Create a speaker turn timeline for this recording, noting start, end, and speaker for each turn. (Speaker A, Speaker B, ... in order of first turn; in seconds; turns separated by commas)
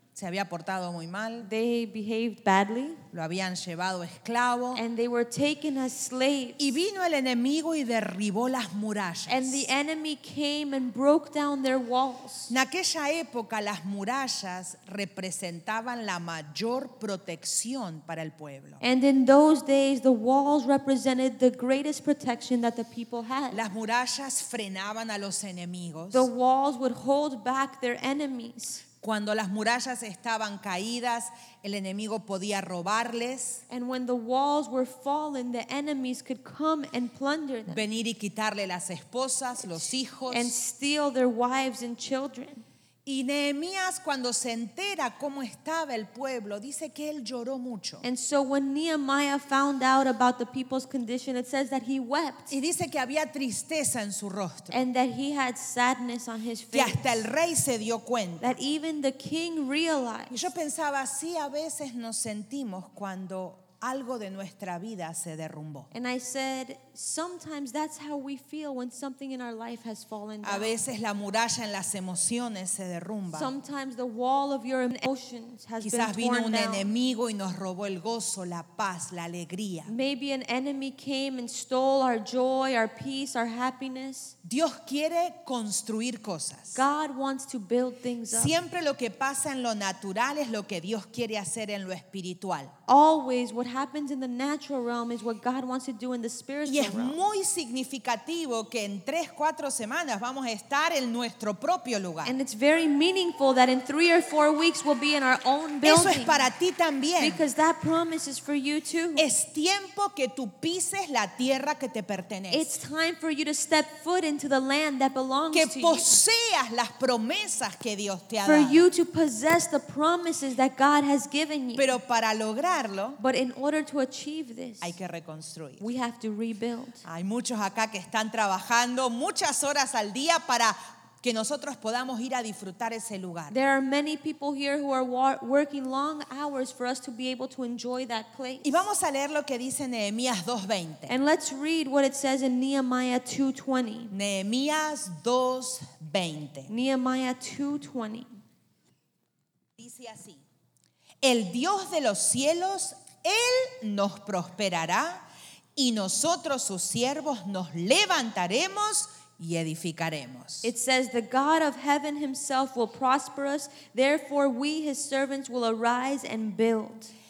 Speaker A: 0.1-1.5, Speaker B: 1.4-3.0, Speaker A: 3.1-4.8, Speaker B: 4.7-6.8, Speaker A: 6.6-9.7, Speaker B: 9.3-12.5, Speaker A: 12.5-18.8, Speaker B: 18.8-23.6, Speaker A: 23.5-26.3, Speaker B: 26.1-28.8, Speaker A: 29.0-33.6, Speaker B: 33.7-37.8, Speaker A: 37.7-40.5, Speaker B: 39.7-42.6, Speaker A: 43.1-48.0, Speaker B: 48.0-52.5, Speaker A: 52.5-54.8, Speaker B: 54.7-57.3, Speaker A: 56.7-58.5, Speaker B: 58.4-60.4, Speaker A: 60.3-65.9, Speaker B: 65.9-70.8, Speaker A: 70.4-73.5, Speaker B: 73.3-76.9, Speaker A: 75.8-79.9, Speaker B: 79.9-84.3, Speaker A: 84.4-86.8, Speaker B: 86.8-88.5, Speaker A: 88.3-92.7, Speaker B: 92.9-97.2, Speaker A: 96.7-102.3, Speaker B: 102.2-106.5, Speaker A: 105.8-107.4, Speaker B: 107.2-109.3, Speaker A: 109.2-112.7, Speaker B: 112.5-116.2, Speaker A: 115.5-118.9, Speaker B: 118.4-121.9, Speaker A: 121.8-123.2, Speaker B: 123.2-125.0, Speaker A: 124.8-125.9, Speaker B: 125.8-127.0, Speaker A: 127.0-133.6, Speaker B: 133.5-138.8, Speaker A: 138.6-141.1, Speaker B: 141.1-144.1, Speaker A: 144.1-146.7, Speaker B: 146.7-148.3, Speaker A: 149.8-150.4, Speaker A: 151.2-155.2, Speaker A: 155.8-160.7, Speaker B: 160.6-167.1